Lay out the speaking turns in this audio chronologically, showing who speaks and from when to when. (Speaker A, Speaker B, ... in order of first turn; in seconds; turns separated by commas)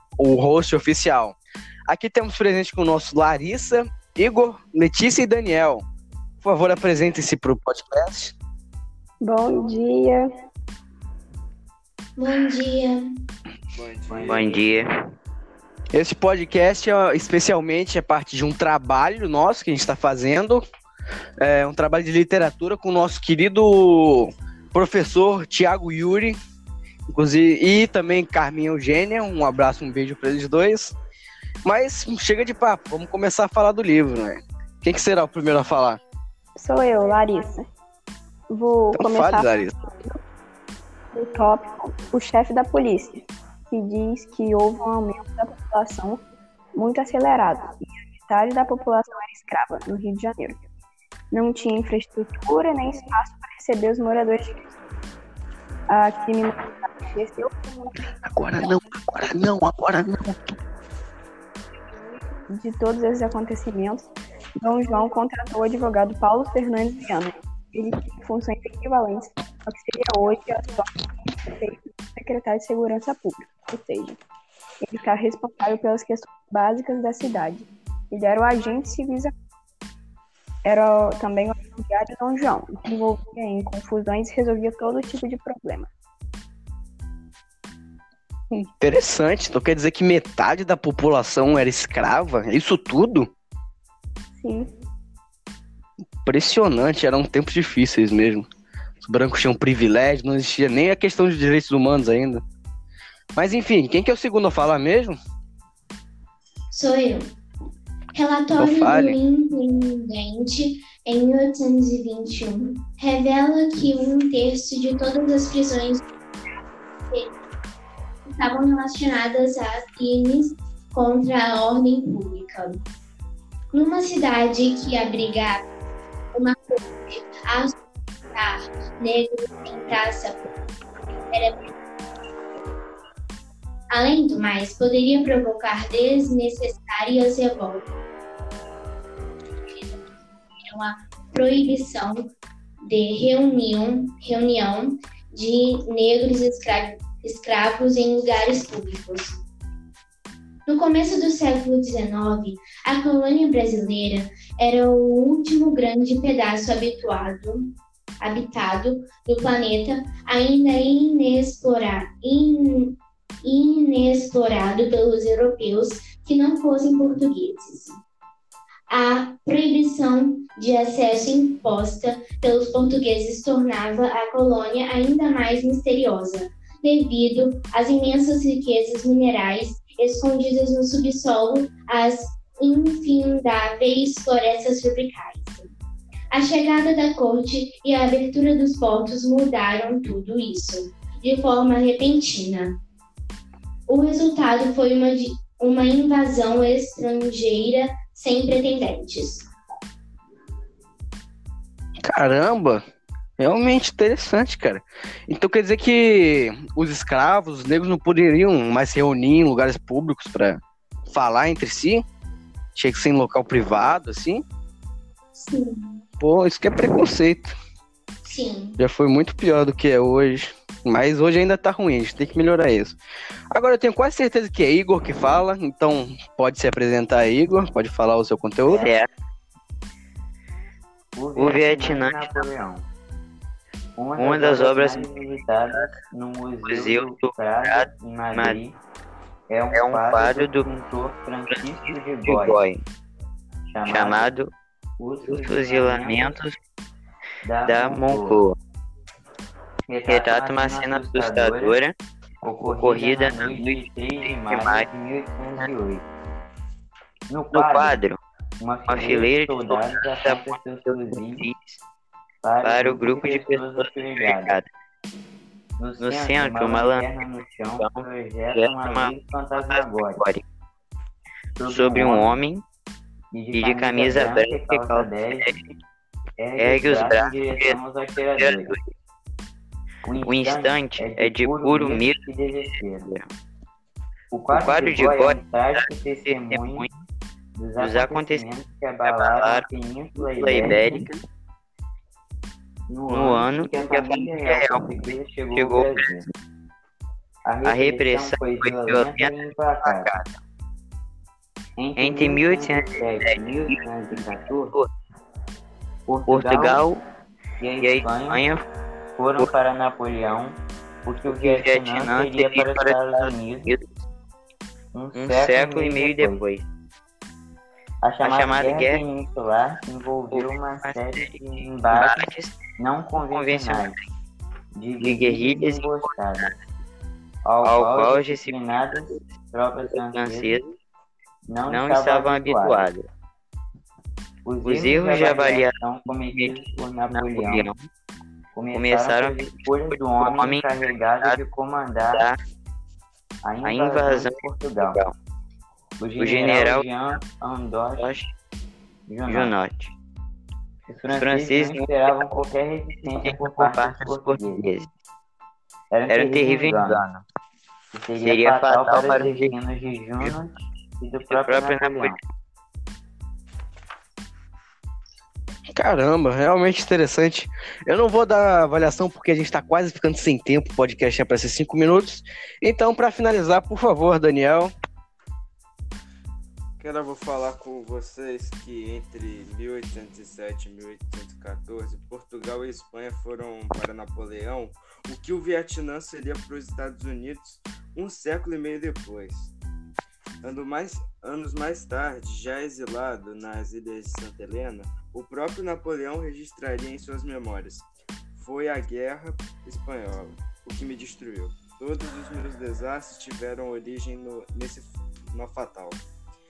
Speaker A: 0.2-1.4, Speaker A: 1.9-5.8, Speaker A: 6.4-8.3, Speaker B: 9.2-10.3, Speaker C: 12.3-12.9, Speaker D: 13.7-14.6, Speaker E: 14.1-14.6, Speaker F: 14.3-14.9, Speaker A: 15.9-20.6, Speaker A: 21.4-26.4, Speaker A: 27.1-30.9, Speaker A: 31.6-36.0, Speaker B: 36.5-37.7, Speaker B: 38.5-40.2, Speaker A: 38.9-39.7, Speaker B: 41.1-46.2, Speaker B: 46.7-50.6, Speaker B: 51.3-54.7, Speaker B: 55.9-57.9, Speaker A: 58.3-60.5, Speaker B: 62.5-64.1, Speaker B: 64.6-74.2, Speaker B: 74.8-79.3, Speaker B: 80.6-85.9, Speaker A: 88.5-93.3, Speaker B: 94.4-94.7, Speaker A: 96.2-98.5, Speaker A: 99.0-102.4, Speaker A: 103.3-105.2, Speaker C: 106.7-107.2, Speaker C: 108.1-116.0, Speaker A: 108.6-109.2, Speaker C: 118.3-122.8, Speaker C: 123.7-125.6, Speaker C: 126.3-127.7, Speaker C: 128.3-130.4, Speaker C: 131.3-131.7, Speaker C: 133.9-137.9, Speaker C: 140.7-142.2, Speaker C: 142.8-149.4, Speaker C: 150.7-168.0, Speaker C: 168.9-185.7, Speaker C: 186.3-192.8, Speaker C: 193.9-199.5, Speaker A: 202.0-202.8, Speaker A: 203.4-210.6, Speaker A: 211.1-212.0, Speaker A: 212.8-214.4, Speaker A: 216.2-217.6, Speaker C: 218.2-218.7, Speaker A: 218.8-223.0, Speaker A: 223.5-228.9, Speaker F: 228.7-229.1, Speaker E: 231.1-232.9, Speaker F: 231.3-232.5, Speaker E: 234.0-238.8, Speaker F: 234.2-235.1, Speaker F: 235.7-236.0, Speaker F: 236.6-238.6, Speaker E: 239.5-242.6, Speaker F: 239.7-240.7, Speaker F: 241.5-242.8, Speaker E: 243.7-244.3, Speaker F: 243.9-244.5, Speaker E: 245.0-246.4, Speaker F: 245.2-246.6, Speaker E: 247.4-248.4, Speaker F: 247.7-248.6, Speaker E: 249.8-251.8, Speaker F: 250.1-251.9, Speaker E: 252.4-256.1, Speaker F: 252.6-254.9, Speaker E: 257.3-258.0, Speaker F: 257.5-258.2, Speaker E: 258.6-261.4, Speaker F: 258.9-261.8, Speaker E: 262.4-264.6, Speaker F: 262.6-264.7, Speaker E: 265.8-270.2, Speaker F: 266.0-267.2, Speaker F: 267.8-270.4, Speaker E: 271.6-272.4, Speaker F: 271.7-272.6, Speaker E: 273.3-275.5, Speaker F: 273.5-275.8, Speaker E: 276.4-278.7, Speaker F: 276.6-278.9, Speaker E: 280.0-283.1, Speaker F: 280.2-283.3, Speaker E: 284.3-286.9, Speaker F: 284.5-287.0, Speaker E: 287.6-291.1, Speaker F: 287.8-288.4, Speaker F: 289.0-289.7, Speaker F: 290.4-291.2, Speaker E: 292.9-296.2, Speaker F: 293.1-294.9, Speaker F: 295.5-296.3, Speaker E: 297.4-300.1, Speaker F: 297.6-300.4, Speaker E: 301.8-304.7, Speaker F: 302.0-303.4, Speaker F: 304.1-304.9, Speaker E: 306.1-306.8, Speaker F: 306.3-307.0, Speaker E: 307.6-308.4, Speaker F: 307.8-308.6, Speaker E: 309.1-313.7, Speaker F: 311.3-313.9, Speaker E: 314.9-316.4, Speaker F: 315.1-316.6, Speaker E: 318.0-322.2, Speaker F: 318.2-319.0, Speaker F: 320.3-321.4, Speaker F: 321.9-322.6, Speaker E: 322.8-323.9, Speaker F: 323.3-324.1, Speaker E: 324.7-326.5, Speaker F: 325.0-326.6, Speaker E: 327.4-330.6, Speaker F: 327.6-329.2, Speaker F: 329.9-330.8, Speaker E: 331.5-332.9, Speaker F: 331.7-333.1, Speaker E: 334.4-337.7, Speaker F: 334.6-335.8, Speaker F: 336.3-336.6, Speaker F: 337.1-337.9, Speaker E: 338.5-342.2, Speaker F: 338.7-341.4, Speaker F: 342.1-342.4, Speaker E: 343.4-345.0, Speaker F: 343.6-345.1, Speaker E: 346.0-348.1, Speaker F: 346.2-346.9, Speaker F: 348.0-348.3, Speaker E: 349.1-349.5, Speaker F: 349.3-349.9, Speaker E: 350.9-354.6, Speaker F: 351.1-352.3, Speaker F: 353.0-354.9, Speaker E: 355.9-357.0, Speaker F: 356.1-357.2, Speaker E: 357.9-362.2, Speaker F: 358.2-359.6, Speaker F: 361.3-362.2, Speaker A: 365.7-374.7, Speaker D: 376.8-389.5, Speaker D: 390.4-406.0